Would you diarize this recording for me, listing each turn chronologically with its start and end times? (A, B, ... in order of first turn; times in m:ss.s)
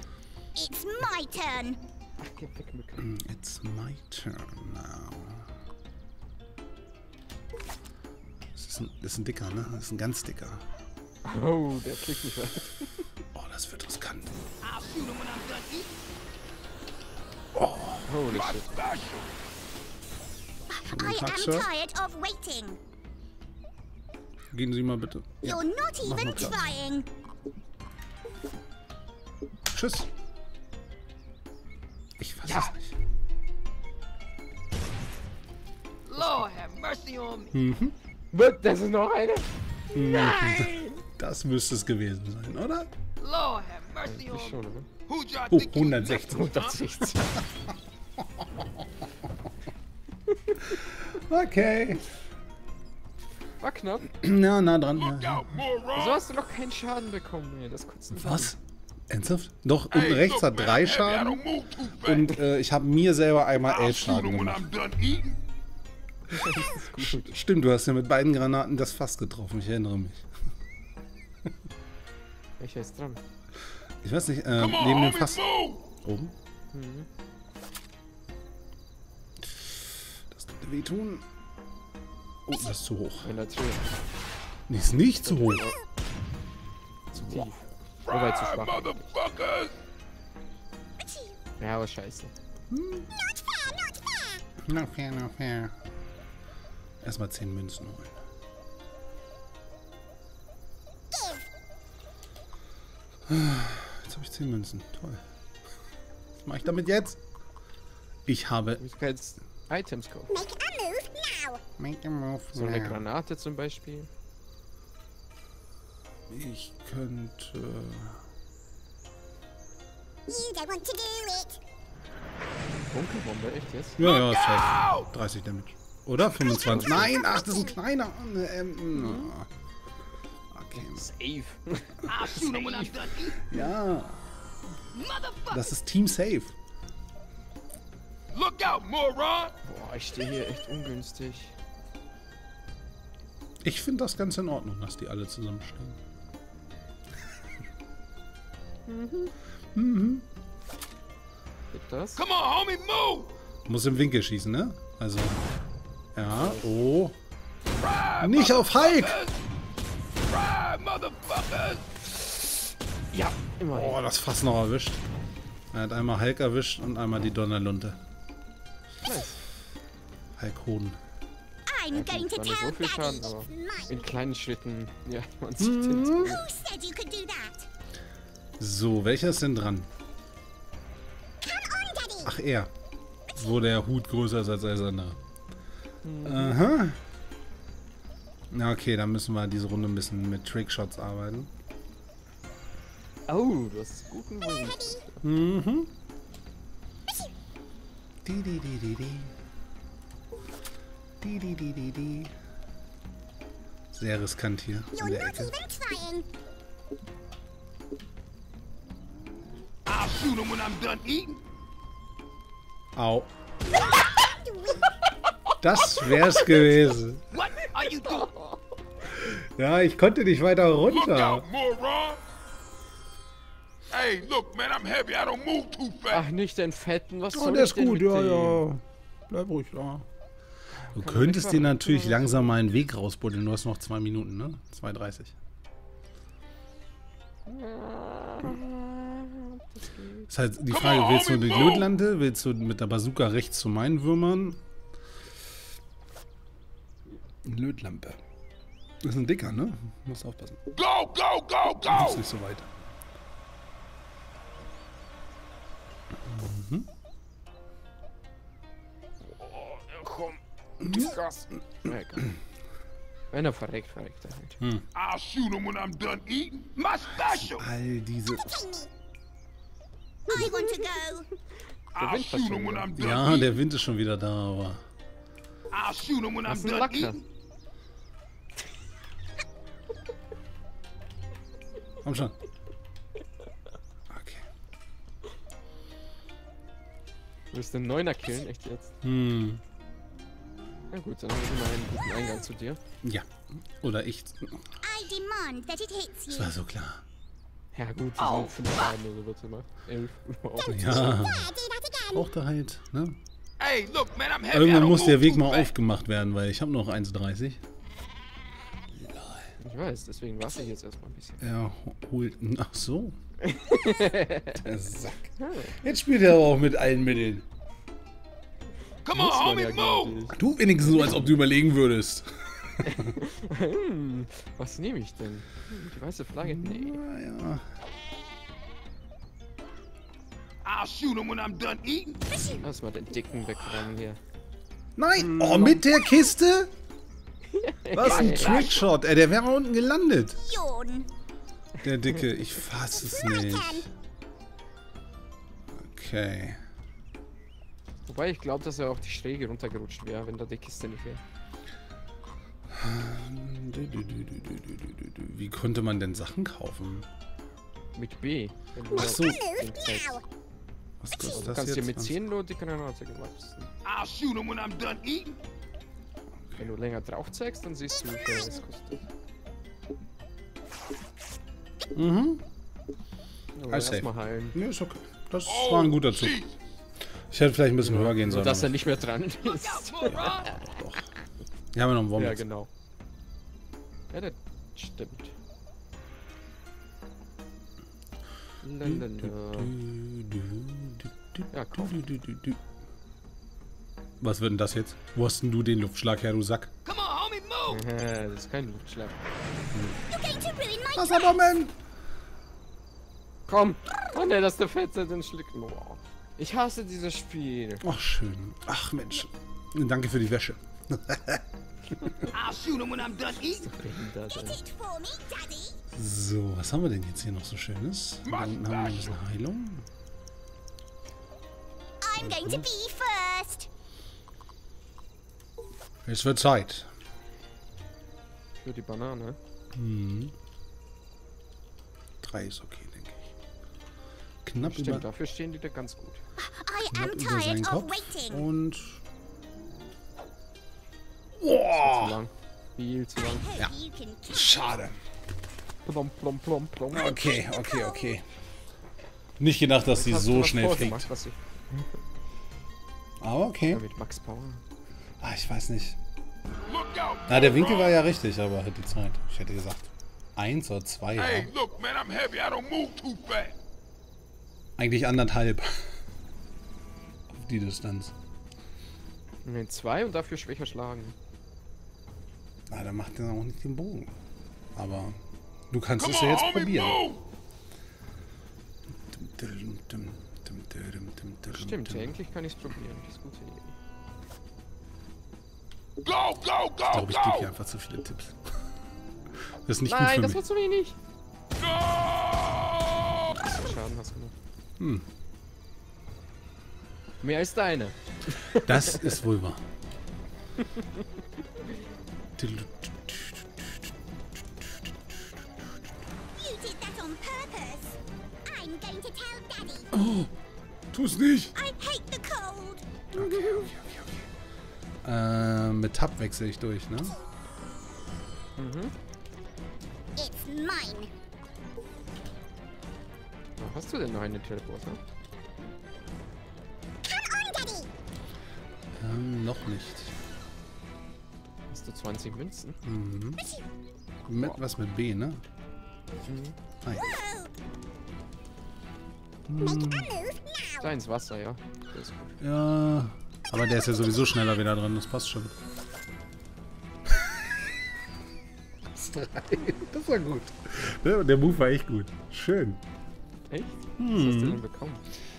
0:00.5-0:01.8 A
0:02.2-0:03.1 B
0:03.0-0:05.5 C
0:08.6-0:10.6 C
0:11.2-0:13.0 B
0:13.3-0:14.3 C
0:14.6-0:16.0 D
0:17.5-0:18.1 C
0:18.1-0:18.6 B
0:18.3-0:19.3 D
0:20.7-0:22.8 A
0:20.9-0:21.7 C
0:24.5-0:26.7 C
0:25.4-0:27.1 A
0:29.7-0:30.1 C
0:32.2-0:32.9 C
0:32.4-0:32.7 B
0:36.0-0:37.5 D
0:37.5-0:37.9 C
0:38.3-0:41.0 B
0:39.9-0:42.9 C
0:43.2-0:46.8 D
0:44.0-0:44.9 B
0:45.5-0:46.6 C
0:46.2-0:47.4 B
0:50.3-0:50.7 B
0:50.9-0:52.0 C
0:53.6-0:54.1 B
0:54.1-0:55.5 C
0:54.9-0:56.2 D
0:55.9-0:58.5 B
0:58.1-0:58.6 C
0:59.1-1:01.4 C
0:59.9-1:02.4 D
1:02.0-1:04.7 C
1:03.6-1:05.4 D
1:06.3-1:07.4 B
1:06.4-1:10.2 C
1:12.6-1:13.2 B
1:14.0-1:15.4 C
1:14.6-1:15.9 D
1:16.0-1:16.3 C
1:16.7-1:17.1 B
1:19.5-1:21.2 C
1:22.4-1:23.3 C
1:23.2-1:23.8 B
1:24.7-1:25.7 C
1:25.1-1:25.8 B
1:27.1-1:29.1 B
1:27.2-1:27.5 C
1:28.0-1:29.8 D
1:31.0-1:31.4 A
1:31.6-1:32.3 B
1:32.7-1:33.1 C
1:33.1-1:34.4 A
1:34.6-1:35.7 C
1:37.0-1:38.1 C
1:41.1-1:41.5 A
1:43.3-1:45.2 C
1:46.4-1:47.2 C
1:48.2-1:48.8 C
1:48.8-1:50.4 B
1:50.3-1:51.6 A
1:51.8-1:53.0 C
1:52.5-1:54.1 B
1:56.3-1:58.2 C
2:00.3-2:01.6 A
2:02.8-2:04.0 B
2:04.0-2:09.5 C
2:04.0-2:05.1 D
2:06.3-2:07.8 A
2:06.6-2:07.1 B
2:08.9-2:09.3 B
2:10.5-2:11.0 C
2:10.7-2:12.9 B
2:12.0-2:13.4 D
2:13.4-2:14.2 C
2:14.9-2:15.7 D
2:15.5-2:16.5 C
2:18.3-2:19.5 D
2:19.6-2:21.5 B
2:23.6-2:26.0 C
2:28.9-2:29.3 B
2:29.7-2:30.2 C
2:31.7-2:32.2 B
2:32.2-2:33.3 D
2:33.6-2:35.4 C
2:36.1-2:37.2 C
2:36.2-2:36.7 B
2:37.8-2:39.4 D
2:38.2-2:39.2 C
2:40.2-2:41.8 D
2:43.1-2:44.0 B
2:43.7-2:45.0 C
2:45.7-2:48.0 C
2:49.0-2:49.4 B
2:50.4-2:51.0 C
2:51.6-2:54.1 A
2:51.9-2:56.5 B
2:55.6-2:56.4 C
2:56.2-2:57.7 A
2:58.6-2:59.9 C
3:01.4-3:02.3 A
3:02.2-3:02.7 C
3:03.4-3:05.2 C
3:06.0-3:06.6 B
3:06.2-3:07.0 C
3:08.5-3:11.5 C
3:13.3-3:15.2 B
3:15.2-3:15.9 C
3:18.2-3:19.3 C
3:21.2-3:22.3 C
3:23.9-3:25.5 C
3:25.0-3:26.3 A
3:29.8-3:31.4 D
3:32.9-3:33.3 C
3:33.8-3:34.9 A
3:35.6-3:37.2 C
3:37.3-3:38.3 D
3:38.0-3:38.6 B
3:39.1-3:41.4 C
3:40.9-3:42.2 D
3:43.9-3:46.2 D
3:46.1-3:48.6 B
3:47.3-3:50.0 C
3:50.8-3:52.5 B
3:50.9-3:55.3 C
3:57.4-4:00.3 B
4:00.3-4:04.6 C
4:00.7-4:01.9 D
4:07.4-4:08.2 C
4:09.0-4:10.6 C
4:10.7-4:12.2 D
4:11.9-4:12.7 C
4:16.2-4:16.9 C
4:19.2-4:22.3 B
4:20.8-4:21.1 C
4:23.3-4:24.6 B
4:24.6-4:24.8 C
4:24.9-4:27.7 D
4:27.2-4:28.6 C
4:28.4-4:28.9 A
4:30.3-4:31.3 A
4:30.3-4:30.6 B
4:31.9-4:33.0 B
4:31.9-4:33.6 D
4:33.0-4:34.8 C
4:35.7-4:37.2 D
4:36.5-4:37.2 B
4:42.0-4:42.3 C
4:44.1-4:44.4 C
4:47.5-4:48.9 B
4:49.0-4:49.6 C
4:50.9-4:52.8 B
4:53.0-4:54.7 C
4:54.8-4:56.5 A
4:56.3-4:57.0 C
4:57.7-5:01.2 B
4:58.2-4:58.9 D
5:00.6-5:01.5 C
5:00.7-5:02.2 A
5:02.1-5:03.2 C
5:03.6-5:05.7 D
5:04.5-5:07.6 C
5:08.9-5:09.5 C
5:09.6-5:11.4 B
5:11.4-5:13.2 C
5:13.4-5:14.6 B
5:14.5-5:17.4 C
5:15.4-5:15.8 B
5:19.0-5:20.3 D
5:19.1-5:21.3 B
5:20.3-5:23.1 C
5:22.8-5:27.0 B
5:26.4-5:27.6 C
5:30.6-5:32.3 D
5:32.3-5:32.6 A
5:32.4-5:34.2 B
5:35.0-5:36.7 C
5:35.1-5:35.8 B
5:37.5-5:38.8 B
5:37.9-5:40.4 C
5:38.0-5:38.8 D
5:40.4-5:41.1 A
5:41.8-5:43.9 C
5:43.0-5:43.8 A
5:45.8-5:46.6 C
5:48.1-5:51.2 B
5:52.7-5:57.1 C
5:57.9-6:00.2 B
5:58.9-6:00.2 A
5:58.9-5:59.4 C
6:01.0-6:02.2 C
6:01.2-6:03.7 B
6:03.8-6:05.4 D
6:06.6-6:09.0 B
6:11.9-6:12.4 C
6:13.5-6:14.6 B
6:13.7-6:16.4 C
6:15.4-6:16.6 D
6:17.3-6:18.8 C
6:17.8-6:20.7 B
6:19.4-6:20.6 D
6:20.6-6:21.0 C
6:21.7-6:22.4 C
6:22.2-6:22.7 B
6:24.1-6:25.3 B
6:28.6-6:29.7 B
6:28.8-6:32.6 C
6:31.5-6:32.0 B
6:34.2-6:36.7 C
6:36.8-6:37.8 D
6:37.7-6:39.2 B
6:39.7-6:40.0 C
6:40.1-6:41.4 A
6:40.9-6:41.8 C
6:43.5-6:47.8 B
6:47.8-6:51.4 C
6:52.3-6:53.7 D
6:53.4-6:54.6 B
6:54.3-6:55.8 A
6:55.9-6:59.8 C
6:58.2-6:59.2 D
7:02.0-7:03.7 A
7:02.2-7:02.7 C
7:06.0-7:06.9 C
7:08.6-7:09.4 B
7:09.7-7:10.3 C
7:12.2-7:13.3 C
7:14.4-7:15.0 C
7:14.5-7:16.2 B
7:16.4-7:18.5 A
7:16.9-7:19.0 C
7:21.4-7:22.2 C
7:21.7-7:23.5 B
7:23.2-7:24.8 A
7:24.3-7:25.0 C
7:25.8-7:27.2 B
7:26.9-7:28.2 C
7:27.4-7:28.2 A
7:29.4-7:31.1 C
7:29.9-7:31.9 B
7:33.2-7:33.8 C
7:33.7-7:34.6 B
7:35.2-7:36.0 C
7:36.7-7:38.0 D
7:37.3-7:41.5 C
7:41.2-7:43.5 D
7:44.8-7:45.9 C
7:47.3-7:48.1 C
7:49.4-7:51.2 B
7:52.7-7:54.1 C
7:54.7-7:55.2 C
7:55.7-7:57.0 C
7:56.0-7:57.2 D
7:59.1-8:02.1 C
8:01.5-8:03.7 B
8:06.0-8:07.5 D
8:06.9-8:08.5 C
8:09.6-8:10.4 C
8:09.8-8:11.0 B
8:11.6-8:13.3 D
8:13.2-8:14.3 B
8:14.8-8:15.0 C
8:17.2-8:19.2 B
8:18.6-8:19.6 C
8:22.4-8:23.9 C
8:24.6-8:25.3 C
8:26.3-8:29.9 A
8:29.9-8:30.3 C
8:30.9-8:31.5 C
8:31.5-8:33.6 A
8:33.1-8:34.3 C
8:35.0-8:37.2 C
8:38.6-8:38.9 B
8:40.2-8:41.1 A
8:43.6-8:45.0 B
8:47.0-8:47.9 A
8:49.0-8:50.1 C
8:51.7-8:52.8 B
8:52.8-8:53.4 C
8:54.3-8:55.4 C
8:56.2-8:56.5 B
8:56.8-8:57.1 C
8:57.0-8:57.5 A
8:59.5-9:00.2 C
8:59.6-9:00.9 A
9:00.8-9:02.4 B
9:02.4-9:05.5 C
9:08.9-9:12.8 C
9:13.5-9:15.0 B
9:14.0-9:14.6 C